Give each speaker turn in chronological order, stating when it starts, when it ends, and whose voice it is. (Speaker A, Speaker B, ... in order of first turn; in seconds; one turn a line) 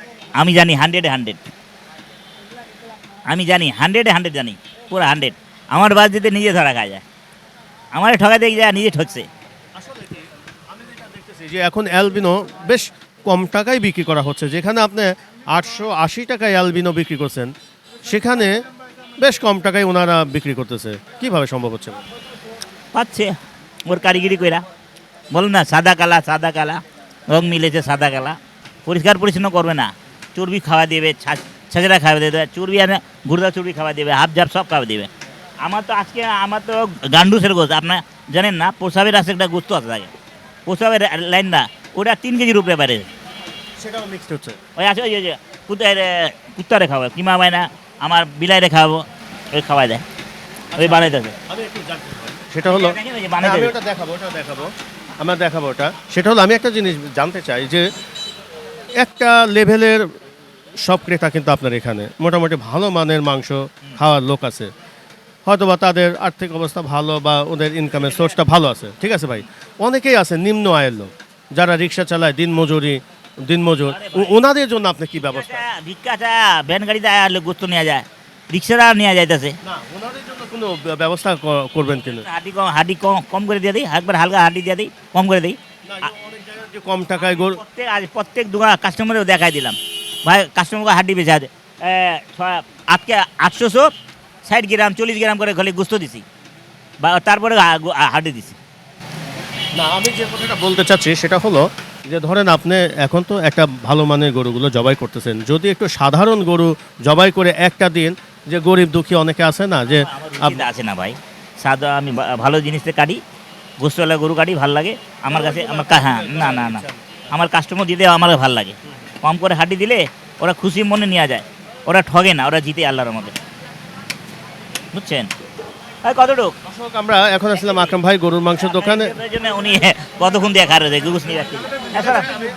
Speaker A: 0.3-1.4
Speaker A: 3.3-7.0
Speaker A: 7.9-9.3
Speaker B: 9.8-17.5
Speaker B: 18.1-18.6
Speaker B: 19.2-22.0
Speaker A: 22.9-24.6
Speaker A: 25.3-35.1
Speaker A: 35.6-40.1
Speaker A: 40.6-43.1
Speaker B: 43.8-44.6
Speaker A: 44.8-50.0
Speaker B: 50.7-57.9
Speaker A: 50.8-51.3
Speaker A: 52.6-53.7
Speaker B: 59.0-60.0
Speaker B: 60.8-64.7
Speaker B: 65.5-75.6
Speaker A: 73.9-74.3
Speaker A: 75.3-79.5
Speaker B: 79.6-82.2
Speaker A: 82.2-85.6
Speaker B: 85.9-87.6
Speaker A: 87.2-93.9
Speaker A: 94.4-96.2
Speaker A: 97.0-98.6
Speaker B: 99.8-110.7
Speaker A: 110.0-113.2
Speaker A: 113.8-123.3
Speaker B: 115.3-117.0
Speaker A: 124.9-125.3
Speaker A: 126.0-126.5
Speaker B: 126.7-129.1
Speaker A: 128.7-132.3